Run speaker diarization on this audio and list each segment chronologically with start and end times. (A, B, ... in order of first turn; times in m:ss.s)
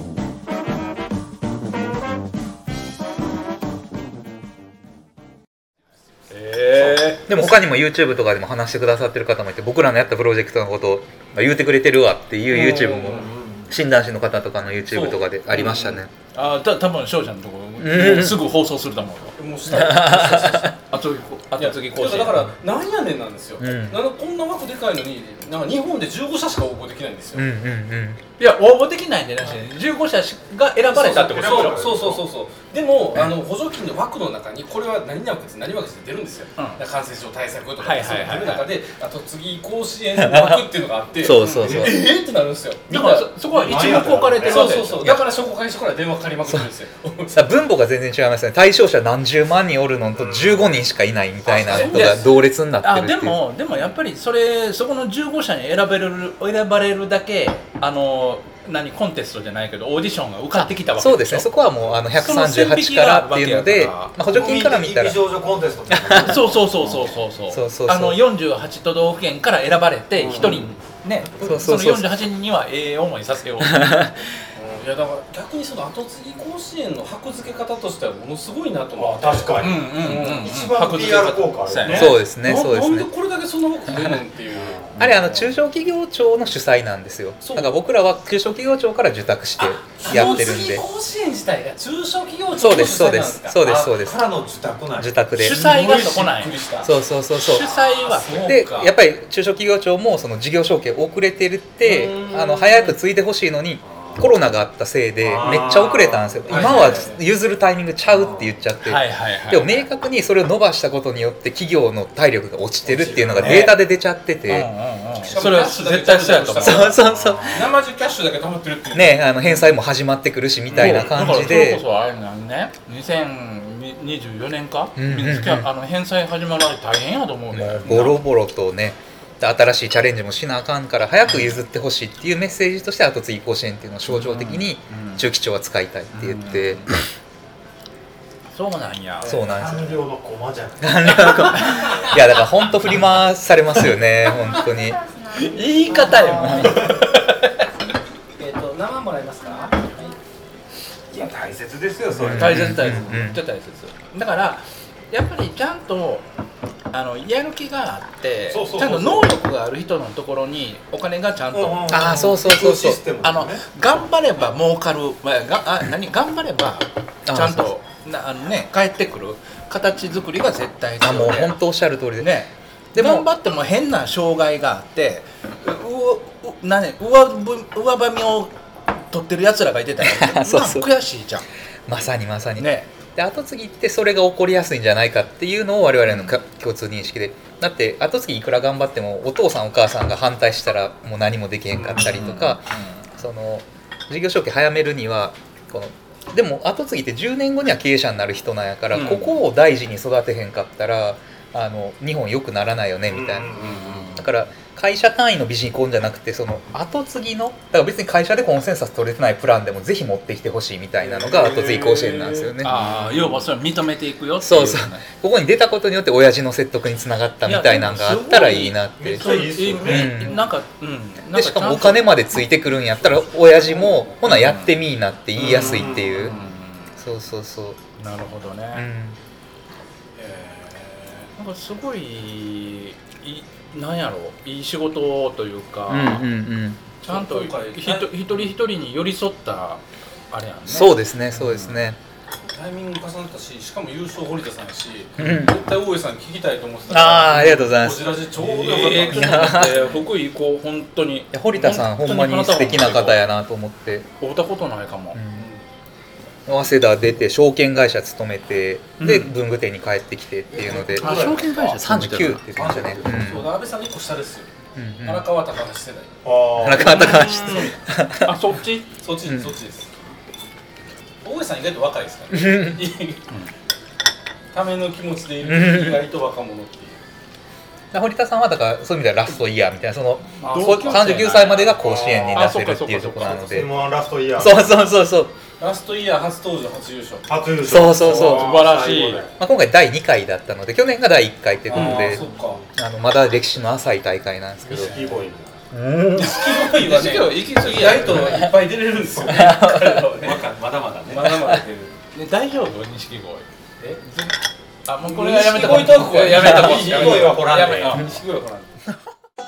0:06.3-0:07.3 A
0:07.3-0:16.1 B
0:12.5-0:13.5 C
0:14.9-0:16.0 C
0:16.3-0:19.4 A
0:17.8-0:18.4 B
0:19.4-0:20.7 C
0:19.7-0:20.8 B
0:20.8-0:22.5 A
0:21.5-0:27.5 C
0:23.6-0:24.0 B
0:27.3-0:28.2 B
0:28.4-0:31.8 A
0:30.9-0:43.3 C
0:31.0-0:32.2 D
0:36.6-0:36.8 A
0:37.8-0:38.6 A
0:40.2-0:40.7 B
0:41.2-0:42.0 B
0:41.4-0:42.0 A
0:42.9-0:45.2 A
0:43.5-0:44.8 D
0:44.4-0:47.6 C
0:47.3-0:53.4 B
0:50.1-0:50.7 D
0:51.4-0:52.3 C
0:51.7-1:01.5 A
1:00.5-1:05.3 B
1:02.1-1:04.2 A
1:04.2-1:07.0 D
1:05.9-1:06.4 B
1:06.2-1:13.8 A
1:07.5-1:08.2 B
1:10.2-1:10.6 D
1:11.4-1:12.1 B
1:13.6-1:14.1 B
1:14.5-1:20.5 C
1:18.9-1:22.2 D
1:19.6-1:22.3 A
1:21.8-1:24.7 C
1:21.9-1:23.1 B
1:24.0-1:25.5 A
1:24.5-1:24.8 D
1:25.0-1:30.8 B
1:27.4-1:27.7 C
1:30.0-1:31.6 A
1:30.2-1:31.5 E
1:31.8-1:33.9 C
1:32.6-1:34.1 B
1:33.8-1:35.1 D
1:35.0-1:35.7 B
1:35.4-1:36.6 A
1:35.5-1:36.9 C
1:36.8-1:37.7 B
1:37.4-1:38.8 A
1:37.8-1:38.9 C
1:38.3-1:54.7 B
1:41.8-1:42.9 C
1:45.2-1:46.7 D
1:46.5-1:47.2 C
1:48.1-1:48.5 D
1:48.8-1:49.8 A
1:52.9-1:53.7 D
1:53.3-1:53.8 A
1:54.5-1:57.0 A
1:55.2-1:59.2 C
1:56.6-1:57.7 B
1:57.1-1:57.7 D
1:58.9-2:01.8 B
2:00.7-2:08.2 A
2:05.0-2:05.7 B
2:07.5-2:16.9 B
2:11.2-2:11.6 A
2:14.1-2:15.3 A
2:16.1-2:16.9 A
2:18.5-2:19.4 A
2:19.2-2:20.0 B
2:19.2-2:21.6 D
2:20.8-2:25.0 B
2:25.4-2:27.3 A
2:25.8-2:26.6 E
2:26.2-2:26.8 B
2:28.4-2:30.2 E
2:31.1-2:32.9 D
2:32.1-2:33.4 B
2:32.3-2:36.2 A
2:36.9-2:42.2 A
2:38.5-2:39.4 D
2:41.5-2:43.7 D
2:41.9-2:43.0 B
2:43.2-2:51.6 A
2:47.2-2:47.7 B
2:51.0-2:52.4 B
2:52.2-2:58.5 A
2:53.0-2:53.3 B
2:59.1-3:01.4 A
3:00.0-3:00.9 B
3:01.9-3:32.8 B
3:02.6-3:02.9 A
3:06.0-3:06.4 A
3:11.7-3:13.2 A
3:18.9-3:19.4 A
3:23.0-3:24.2 D
3:23.6-3:24.2 A
3:31.2-3:32.5 C
3:32.6-3:35.0 A
3:34.4-3:39.3 B
3:37.4-3:42.2 A
3:39.0-3:40.5 D
3:39.8-3:40.4 B
3:41.3-3:46.4 B
3:42.9-3:43.5 C
3:43.7-3:44.8 A
3:45.4-3:47.0 A
3:45.4-3:46.4 D
3:47.0-3:47.8 B
3:48.0-3:48.8 A
3:48.7-3:49.2 B
3:50.2-3:51.3 C
3:51.4-3:56.3 A
3:55.9-3:56.9 B
3:57.0-4:01.8 A
3:57.0-3:58.5 C
4:00.7-4:02.0 B
4:02.4-4:10.1 C
4:05.2-4:05.6 B
4:06.9-4:08.2 B
4:08.3-4:13.2 A
4:08.9-4:09.9 B
4:11.3-4:14.1 B
4:14.2-4:15.2 A
4:15.1-4:15.5 B
4:15.3-4:15.6 C
4:16.5-4:23.5 B
4:19.0-4:19.4 A
4:20.6-4:23.4 D
4:20.6-4:23.2 A
4:23.2-4:24.5 C
4:24.7-4:25.3 B
4:25.0-4:26.2 C
4:26.2-4:27.1 D
4:26.6-4:28.4 B
4:26.7-4:29.0 A
4:29.0-4:29.9 C
4:29.2-4:29.5 B
4:31.2-4:33.2 C
4:32.3-4:32.8 B
4:34.5-4:37.0 C
4:35.4-4:36.0 B
4:37.9-4:43.7 B
4:40.4-4:41.8 A
4:41.5-4:42.5 D
4:42.3-4:43.6 A
4:43.2-4:44.7 D
4:44.4-4:45.3 B
4:45.6-4:47.3 C
4:47.3-4:49.3 D
4:47.6-4:48.5 B
4:48.0-4:49.2 A
4:49.4-4:52.2 B
4:51.7-4:52.6 C
4:52.1-4:52.6 D
4:52.7-4:55.0 B
4:54.6-4:55.6 D
4:55.7-4:56.6 B
4:56.1-5:00.5 C
4:56.8-4:58.5 A
4:58.2-4:58.5 B
4:59.2-5:00.3 B
5:00.2-5:01.2 D
5:01.0-5:02.0 C
5:01.2-5:01.6 B
5:02.1-5:03.5 A
5:04.0-5:04.3 A
5:04.8-5:08.1 A
5:05.0-5:08.7 C
5:05.5-5:08.0 D